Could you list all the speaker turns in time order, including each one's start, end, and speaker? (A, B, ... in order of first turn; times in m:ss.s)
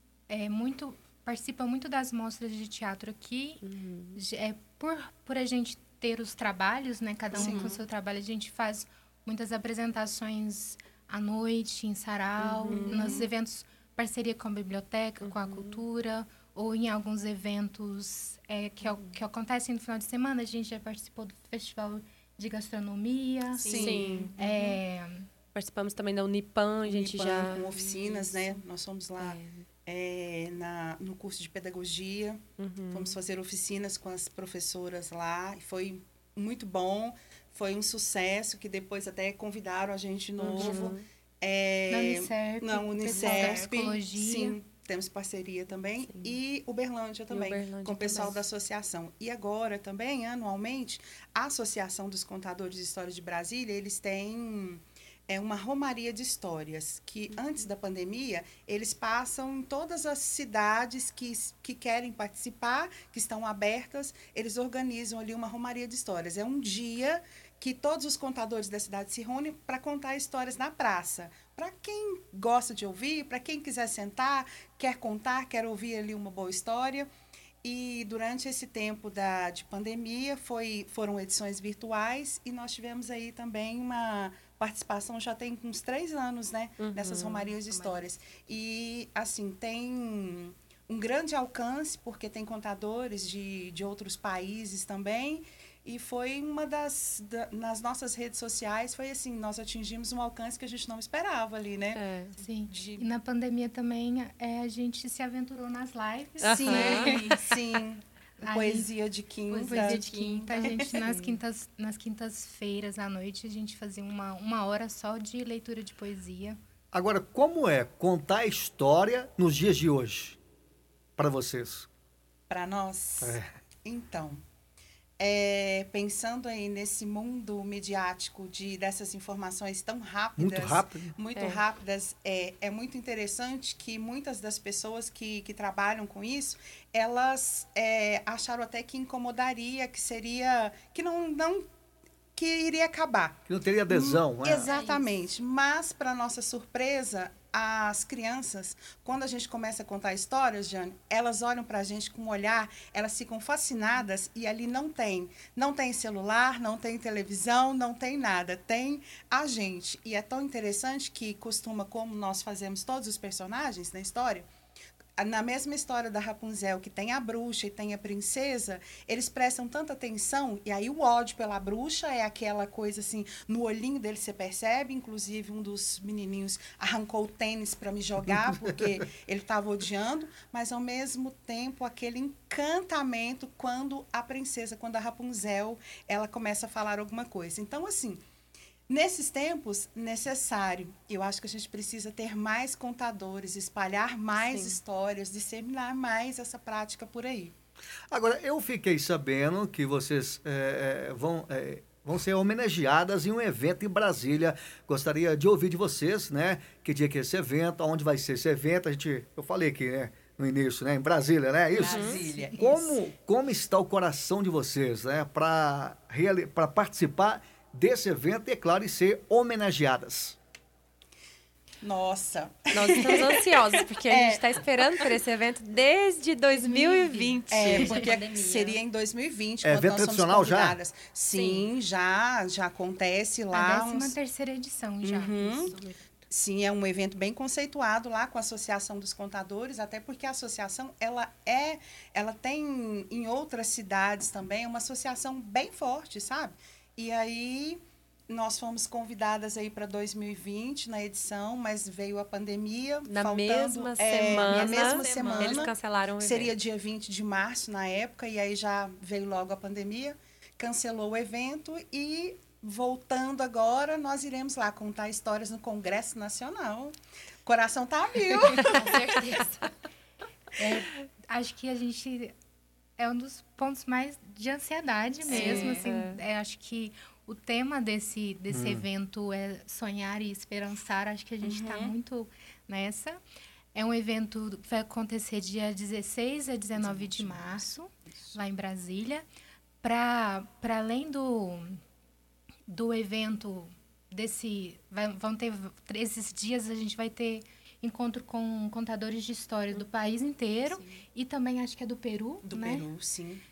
0:00.3-0:03.6 A
0:03.6-0:04.2 B
0:04.2-0:23.7 A
0:07.3-0:07.8 C
0:07.4-0:07.7 D
0:12.4-0:13.2 B
0:12.7-0:13.3 C
0:15.2-0:15.8 B
0:18.8-0:19.2 B
0:23.6-0:24.3 D
0:23.6-0:24.1 C
0:23.8-0:24.8 B
0:24.4-0:25.3 A
0:25.6-0:27.7 B
0:26.8-1:17.1 C
0:27.5-0:28.6 D
0:29.2-0:29.7 B
0:32.6-0:33.2 B
0:40.4-0:41.0 B
0:41.9-0:44.6 A
0:43.2-0:43.6 D
0:46.1-0:46.4 B
0:47.3-0:48.4 B
1:17.6-1:42.0 C
1:26.8-1:27.5 B
1:27.7-1:28.1 D
1:41.9-1:42.4 B
1:42.4-1:47.4 A
1:42.7-1:43.1 C
1:46.4-1:47.3 B
1:46.4-1:50.0 C
1:48.4-1:48.9 A
1:49.5-1:56.6 A
1:49.7-1:51.4 B
1:50.6-1:51.0 C
1:56.9-2:00.4 E
2:01.2-2:01.9 E
2:02.5-2:04.4 C
2:03.2-2:03.5 E
2:05.2-2:21.7 C
2:10.4-2:11.1 E
2:11.4-2:11.6 B
2:22.4-2:44.5 C
2:23.5-2:24.7 E
2:24.7-2:25.1 D
2:45.2-3:08.2 C
2:58.3-2:59.0 E
3:08.9-3:17.5 C
3:14.4-3:14.8 B
3:18.1-3:40.4 E
3:31.7-3:33.0 C
3:31.8-3:32.3 B
3:41.8-3:45.2 C
3:42.7-3:48.1 B
3:47.0-3:48.8 D
3:47.0-3:54.2 C
3:49.6-3:50.8 E
3:51.3-3:51.7 B
3:53.5-3:55.8 A
3:55.0-3:55.7 C
3:56.3-4:26.9 C
4:13.1-4:16.5 B
4:14.3-4:15.7 D
4:27.4-4:29.2 C
4:28.6-4:29.7 D
4:30.6-4:32.3 A
4:33.0-4:43.2 A
4:35.3-4:35.9 D
4:35.3-4:36.2 B
4:38.5-4:38.9 E
4:41.4-4:42.0 C
4:43.7-4:49.2 A
4:46.8-4:48.4 C
4:49.8-4:51.8 A
4:52.7-5:02.9 A
5:00.6-5:01.0 D
5:02.4-5:03.4 C